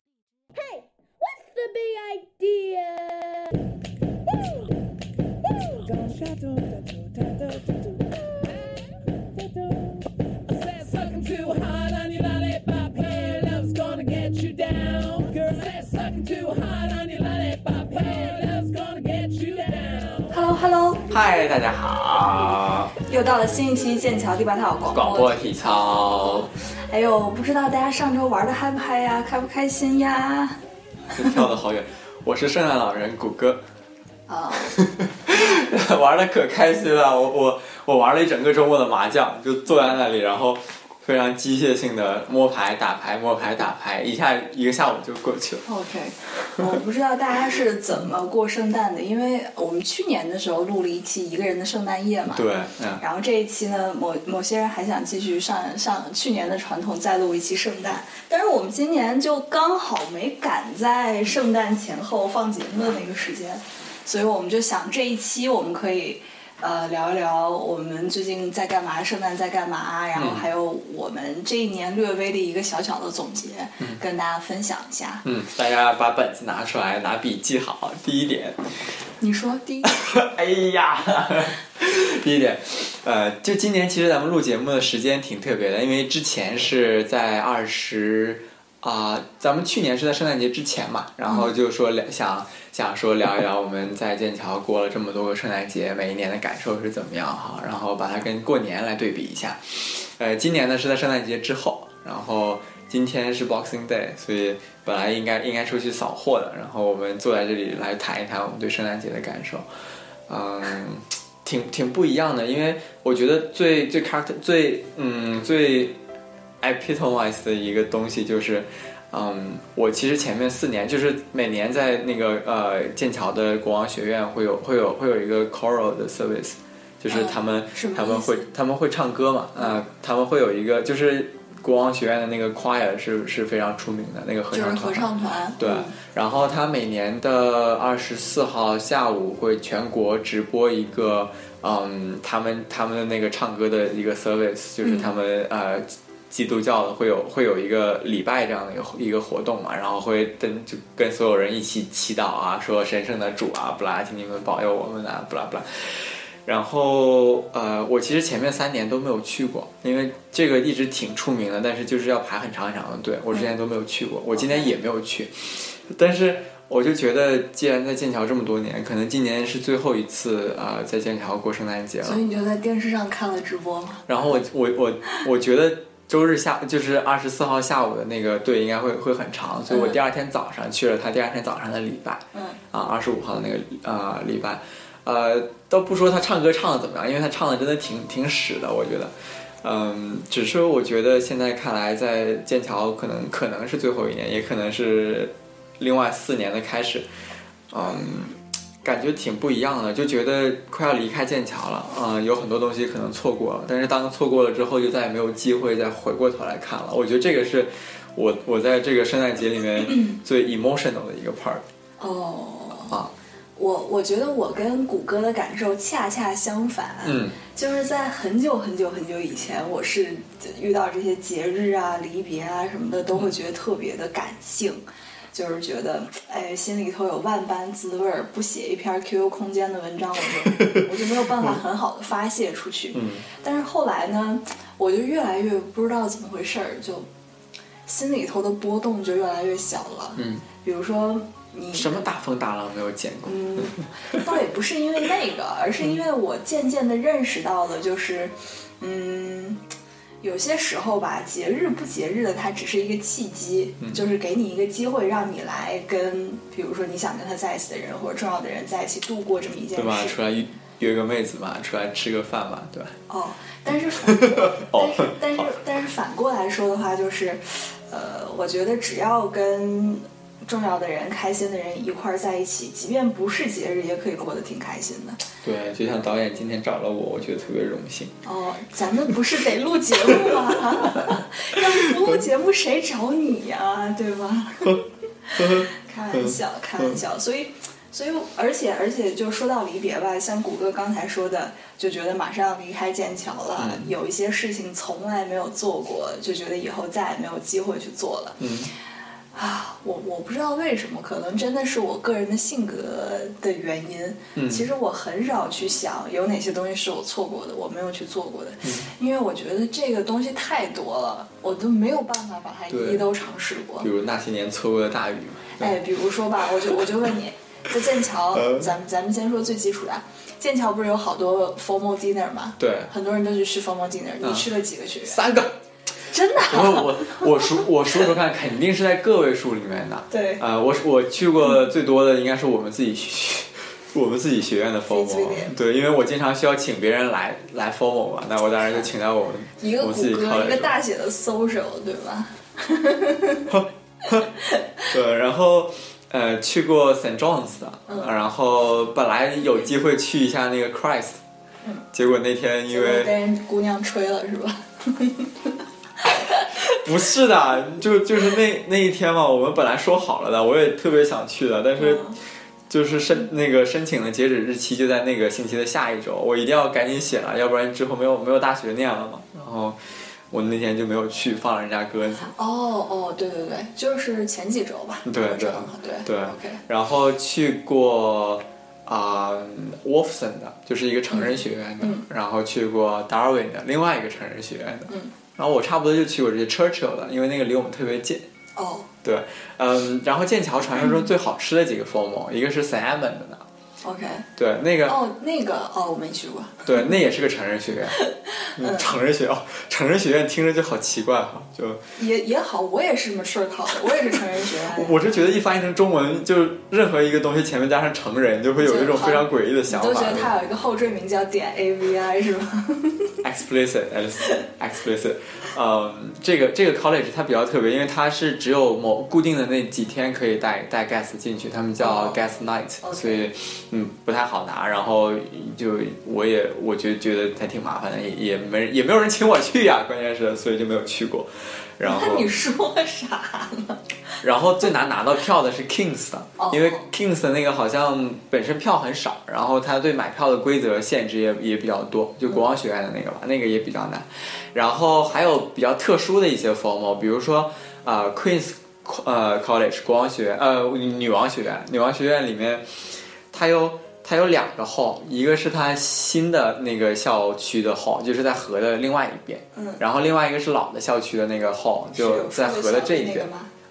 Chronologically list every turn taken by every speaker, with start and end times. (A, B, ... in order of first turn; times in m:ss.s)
0:00.6-0:03.6 A
0:04.4-0:04.7 A
0:05.6-0:05.9 A
0:05.8-0:08.8 B
0:09.3-0:20.3 B
0:20.3-0:21.1 C
0:21.1-0:22.9 D
0:23.0-0:25.5 C
0:24.9-0:26.5 D
0:26.9-0:30.6 C
0:31.1-0:33.6 D
0:34.3-0:34.8 C
0:34.7-0:45.6 D
0:45.6-0:52.4 C
0:52.3-0:53.0 D
0:53.0-1:15.2 C
1:10.1-1:10.5 D
1:15.2-1:18.6 D
1:19.2-1:20.0 C
1:19.8-1:49.6 D
1:50.3-1:56.0 D
1:56.6-2:52.2 D
2:07.1-2:08.4 C
2:14.5-2:16.0 C
2:24.8-2:25.1 C
2:44.4-2:44.7 C
2:52.0-2:54.1 C
2:54.1-3:17.0 D
2:59.7-3:00.0 C
3:02.3-3:02.6 C
3:17.7-3:31.6 D
3:29.9-3:30.2 C
3:32.0-3:33.0 C
3:33.6-3:44.8 C
3:37.0-3:37.4 D
3:45.3-3:57.1 C
3:52.9-3:53.2 D
3:57.8-4:02.1 C
4:00.2-4:00.4 D
4:01.7-4:04.2 D
4:03.2-4:09.6 C
4:10.2-4:20.2 C
4:19.7-4:23.0 D
4:23.1-4:35.2 C
4:24.0-4:25.5 D
4:35.4-4:38.1 D
4:38.2-4:58.4 C
4:40.1-4:41.2 D
4:45.4-4:47.0 D
4:53.6-4:53.9 D
4:58.4-4:58.7 D
4:59.3-5:13.9 C
5:04.3-5:04.7 D
5:12.7-5:13.0 D
5:13.8-5:15.8 D
5:15.6-5:25.2 C
5:18.3-5:18.7 D
5:22.6-5:22.9 D
5:24.2-5:24.5 D
5:25.0-5:25.5 D
5:26.1-5:27.6 C
5:26.4-5:40.7 D
5:30.1-5:30.4 C
5:34.9-5:35.5 C
5:39.6-5:43.5 C
5:43.5-5:44.3 D
5:44.1-5:44.6 C
5:44.9-5:51.2 D
5:47.9-5:48.2 C
5:51.9-5:53.1 D
5:52.7-5:56.8 C
5:56.8-6:02.0 D
6:01.8-6:02.2 C
6:02.7-6:09.8 D
6:10.3-6:12.3 D
6:12.2-6:16.6 C
6:15.0-6:28.2 D
6:21.1-6:22.0 C
6:24.9-6:25.1 C
6:28.6-6:28.9 C
6:29.0-6:33.4 D
6:33.8-6:34.3 C
6:34.4-6:35.0 D
6:34.8-6:37.0 C
6:36.6-6:38.0 D
6:38.0-6:38.9 C
6:38.6-6:41.8 D
6:42.0-6:45.1 C
6:44.5-6:50.3 D
6:48.6-6:53.1 C
6:53.2-7:12.3 D
7:01.8-7:02.2 C
7:02.8-7:03.2 C
7:11.8-7:13.8 C
7:14.2-7:32.6 D
7:16.4-7:16.9 C
7:33.3-7:43.3 D
7:39.5-7:39.8 C
7:42.0-7:43.5 C